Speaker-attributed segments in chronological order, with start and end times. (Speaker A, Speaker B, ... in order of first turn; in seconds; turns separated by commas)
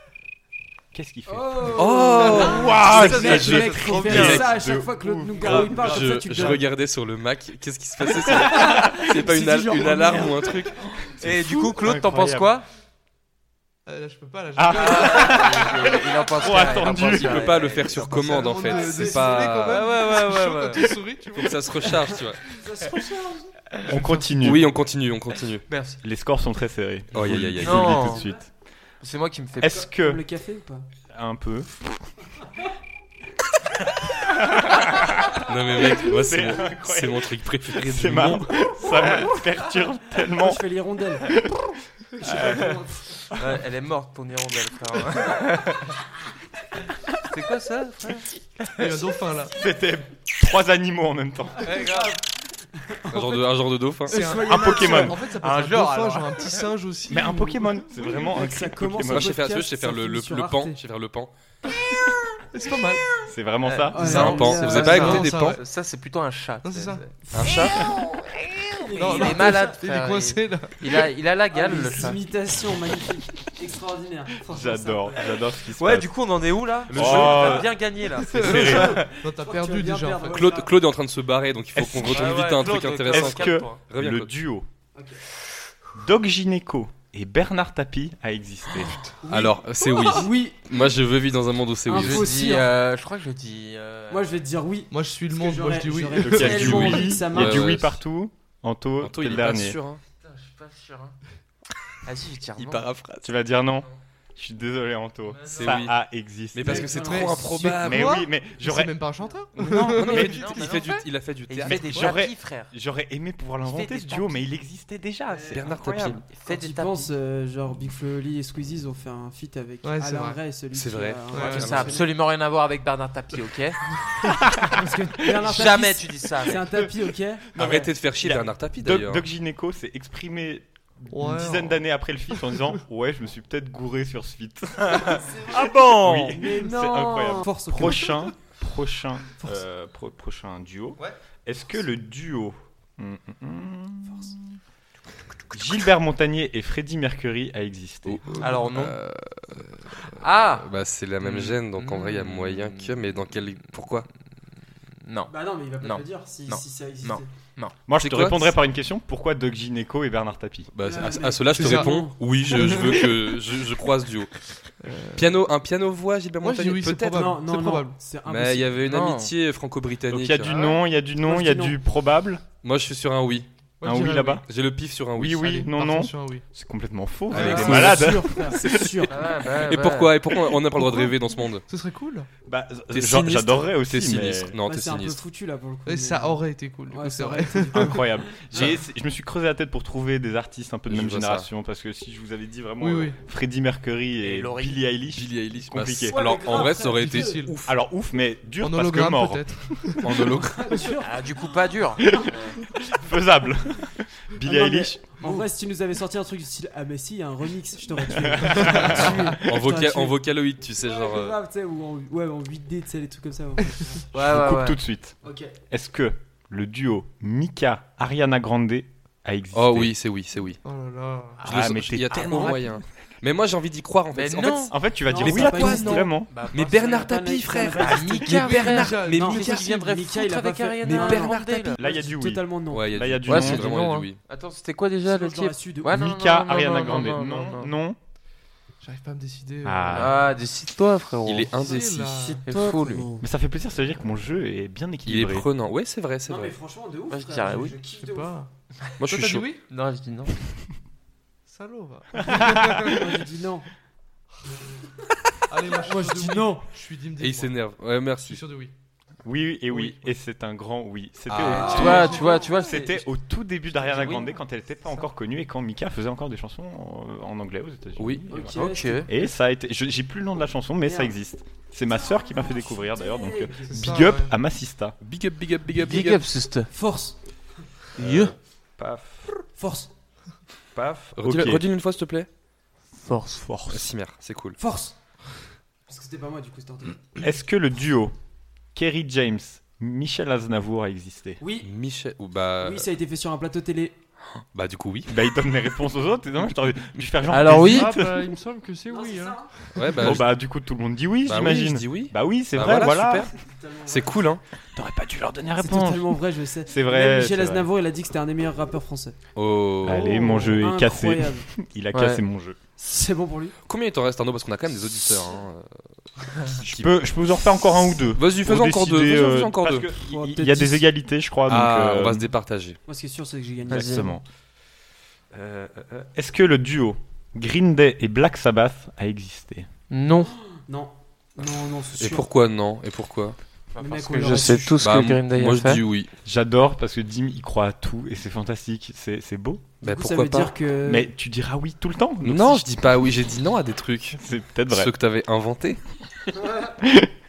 Speaker A: 0.9-6.4, Speaker B: 1.3-6.6, Speaker C: 1.7-4.5, Speaker D: 2.3-4.5, Speaker C: 5.4-10.8, Speaker B: 8.1-10.7, Speaker A: 11.0-12.5, Speaker D: 11.2-12.7, Speaker E: 13.8-15.5, Speaker A: 14.5-15.7, Speaker D: 14.7-18.5, Speaker A: 16.3-17.6, Speaker C: 16.9-19.9, Speaker E: 18.1-22.0, Speaker B: 18.5-19.5, Speaker D: 19.5-20.9, Speaker C: 21.3-22.4, Speaker B: 22.1-23.5, Speaker A: 23.9-24.7, Speaker C: 24.4-25.6, Speaker D: 25.7-26.0, Speaker A: 26.0-28.5, Speaker C: 27.1-28.1, Speaker D: 27.6-28.2, Speaker B: 28.0-28.4, Speaker D: 29.0-29.8, Speaker A: 29.6-30.2, Speaker B: 29.6-30.9, Speaker A: 31.1-31.9, Speaker A: 34.2-40.6, Speaker C: 35.4-38.5, Speaker B: 40.3-41.4, Speaker A: 41.2-41.5, Speaker B: 42.2-43.2, Speaker A: 42.2-42.8, Speaker D: 43.3-45.9, Speaker D: 47.2-48.3, Speaker E: 48.7-49.5, Speaker A: 49.5-51.8, Speaker D: 51.6-52.1, Speaker B: 51.7-52.2, Speaker B: 52.8-55.2, Speaker C: 53.1-54.4, Speaker E: 54.1-57.8, Speaker A: 54.4-55.2, Speaker D: 55.4-56.6, Speaker A: 57.1-59.4, Speaker B: 58.1-60.8, Speaker C: 59.0-61.3, Speaker E: 62.5-63.0, Speaker A: 63.3-64.4, Speaker D: 63.6-67.1, Speaker B: 63.9-65.3, Speaker C: 64.0-65.6, Speaker E: 64.7-65.6, Speaker E: 66.6-67.0, Speaker B: 67.2-69.7, Speaker C: 67.3-67.8, Speaker E: 69.0-70.9, Speaker D: 69.0-72.2, Speaker B: 71.5-75.3, Speaker A: 74.5-76.1, Speaker D: 75.8-78.9, Speaker C: 76.9-77.6, Speaker A: 76.9-77.7, Speaker E: 78.3-80.4, Speaker A: 78.3-79.0, Speaker B: 78.4-80.7, Speaker C: 80.3-84.3, Speaker A: 81.8-82.5, Speaker D: 82.0-83.8, Speaker A: 83.1-84.7, Speaker B: 84.9-85.2, Speaker A: 86.0-89.1, Speaker B: 89.2-90.6, Speaker C: 89.3-92.3, Speaker B: 91.9-92.7, Speaker D: 91.9-94.4, Speaker B: 94.1-97.7, Speaker E: 94.9-97.0, Speaker A: 96.2-99.8, Speaker C: 96.4-98.0, Speaker C: 99.0-100.0, Speaker D: 100.2-101.2, Speaker D: 102.0-102.9, Speaker C: 102.6-103.3, Speaker A: 103.2-107.2, Speaker D: 105.3-105.8, Speaker C: 105.5-105.9, Speaker C: 106.5-108.2, Speaker B: 106.7-107.7, Speaker E: 107.0-110.3, Speaker A: 107.8-108.9, Speaker B: 109.6-110.4, Speaker A: 109.7-110.2, Speaker C: 109.9-112.1, Speaker D: 110.0-112.7, Speaker A: 111.7-116.2, Speaker D: 113.6-114.4, Speaker B: 115.3-115.6, Speaker C: 115.5-116.2, Speaker D: 116.3-117.1, Speaker B: 116.4-122.1, Speaker E: 119.8-120.4, Speaker C: 120.7-122.0, Speaker E: 121.3-121.7, Speaker D: 121.5-123.8, Speaker A: 124.2-125.5, Speaker B: 124.7-127.5, Speaker D: 125.4-126.6, Speaker C: 127.5-129.2, Speaker A: 127.5-144.4, Speaker E: 131.1-131.8, Speaker D: 135.1-136.4, Speaker B: 135.2-135.6, Speaker B: 136.3-138.2, Speaker A: 145.5-148.2, Speaker C: 148.1-154.1, Speaker D: 148.4-149.0, Speaker D: 150.2-150.7, Speaker D: 151.2-153.0, Speaker D: 155.1-157.7, Speaker B: 155.3-157.3, Speaker A: 157.9-160.7, Speaker C: 158.0-158.5, Speaker C: 160.7-164.3, Speaker B: 160.8-162.8, Speaker E: 161.6-161.9, Speaker E: 162.6-163.1, Speaker E: 164.8-165.3, Speaker C: 165.1-167.4, Speaker E: 166.4-168.0, Speaker B: 167.1-168.8, Speaker C: 168.2-170.5, Speaker D: 168.8-169.3, Speaker A: 170.1-172.4, Speaker B: 170.6-171.8, Speaker C: 172.6-173.5, Speaker E: 173.8-174.4, Speaker A: 173.8-174.4, Speaker C: 174.4-175.7, Speaker A: 175.2-179.2, Speaker E: 175.6-176.4, Speaker B: 177.3-179.2, Speaker C: 177.3-178.9, Speaker D: 179.1-180.1, Speaker C: 179.5-181.6, Speaker E: 180.8-181.1, Speaker E: 181.7-182.3, Speaker A: 182.4-184.6, Speaker C: 182.9-185.2, Speaker B: 184.7-188.7, Speaker E: 185.8-188.0, Speaker A: 187.7-196.2, Speaker C: 190.9-191.5, Speaker E: 192.8-193.2, Speaker D: 194.2-194.8, Speaker C: 195.1-197.7, Speaker B: 196.1-197.5, Speaker E: 196.5-197.5, Speaker A: 197.6-199.6, Speaker E: 198.6-200.3, Speaker C: 200.0-200.8, Speaker B: 200.4-201.2, Speaker D: 201.0-202.1, Speaker A: 202.0-205.0, Speaker B: 204.4-210.2, Speaker A: 208.1-209.4, Speaker C: 208.8-211.4, Speaker B: 210.8-214.0, Speaker D: 214.1-214.8, Speaker A: 214.1-215.2, Speaker B: 215.2-215.5, Speaker A: 215.7-219.9, Speaker C: 219.5-220.6, Speaker E: 220.6-221.4, Speaker A: 221.4-222.8, Speaker C: 221.4-229.8, Speaker B: 222.2-222.6, Speaker D: 224.1-224.7, Speaker A: 224.7-226.3, Speaker B: 225.1-228.4, Speaker D: 226.3-227.1, Speaker D: 227.7-231.8, Speaker E: 228.3-229.3, Speaker B: 229.1-233.0, Speaker C: 230.8-231.8, Speaker A: 231.8-233.7, Speaker C: 232.7-234.2, Speaker D: 233.3-237.7, Speaker B: 235.0-236.0, Speaker A: 235.9-238.0, Speaker E: 238.8-240.2, Speaker A: 239.6-240.2, Speaker D: 239.9-241.7, Speaker C: 241.2-242.4, Speaker E: 241.5-242.4, Speaker B: 242.2-243.2, Speaker D: 242.4-243.1, Speaker A: 243.2-245.5, Speaker C: 245.1-246.6, Speaker B: 246.3-248.3, Speaker D: 247.1-247.8, Speaker E: 248.0-248.5, Speaker C: 249.0-249.5, Speaker E: 249.1-249.6, Speaker D: 249.7-250.3, Speaker E: 251.5-253.1, Speaker A: 252.3-252.9, Speaker B: 252.9-253.7, Speaker E: 255.5-257.6, Speaker B: 255.6-256.7, Speaker C: 257.2-258.4, Speaker E: 258.2-258.7, Speaker A: 259.2-268.5, Speaker C: 261.3-262.2, Speaker B: 261.5-262.5, Speaker D: 261.6-263.0, Speaker E: 261.8-262.4, Speaker C: 268.0-268.3, Speaker B: 268.3-269.3, Speaker D: 268.5-269.1, Speaker A: 269.1-274.9, Speaker B: 270.8-271.1, Speaker B: 271.9-274.1, Speaker E: 273.7-274.3, Speaker C: 275.0-276.2, Speaker D: 275.7-276.7, Speaker B: 276.7-277.1, Speaker D: 278.0-278.3, Speaker A: 278.0-279.4, Speaker B: 279.6-279.9, Speaker A: 280.7-281.6, Speaker C: 281.1-282.3, Speaker D: 283.0-283.5, Speaker A: 283.5-283.7, Speaker C: 283.7-284.6, Speaker B: 284.6-285.0, Speaker B: 285.9-287.2, Speaker A: 287.2-288.1, Speaker A: 288.7-291.4, Speaker B: 291.4-291.7, Speaker C: 291.6-292.9, Speaker B: 292.6-293.9, Speaker C: 294.5-295.1, Speaker A: 295.1-298.4, Speaker D: 297.3-297.9, Speaker E: 297.9-299.3, Speaker B: 298.9-299.6, Speaker C: 299.7-300.3, Speaker A: 299.9-303.3, Speaker C: 301.2-303.3, Speaker B: 303.4-304.2, Speaker C: 303.9-304.4, Speaker A: 304.7-307.7, Speaker B: 305.6-309.1, Speaker C: 309.4-310.1, Speaker A: 309.8-312.6, Speaker E: 309.8-310.6, Speaker B: 310.2-311.5, Speaker D: 311.9-312.2, Speaker B: 312.8-313.6, Speaker C: 313.7-315.7, Speaker C: 316.4-317.0, Speaker A: 316.6-322.3, Speaker C: 318.1-319.9, Speaker B: 320.0-320.9, Speaker C: 321.5-322.8, Speaker B: 322.9-324.2, Speaker A: 323.7-324.2, Speaker D: 323.7-324.1, Speaker A: 325.3-329.7, Speaker D: 329.9-330.3, Speaker B: 330.4-332.2, Speaker C: 332.0-333.4, Speaker D: 333.7-335.8, Speaker B: 333.8-334.8, Speaker C: 334.2-336.1, Speaker A: 336.2-339.7, Speaker C: 339.8-340.5, Speaker B: 339.8-341.1, Speaker A: 340.8-342.7, Speaker C: 342.2-345.8, Speaker A: 344.2-344.9, Speaker A: 346.8-347.1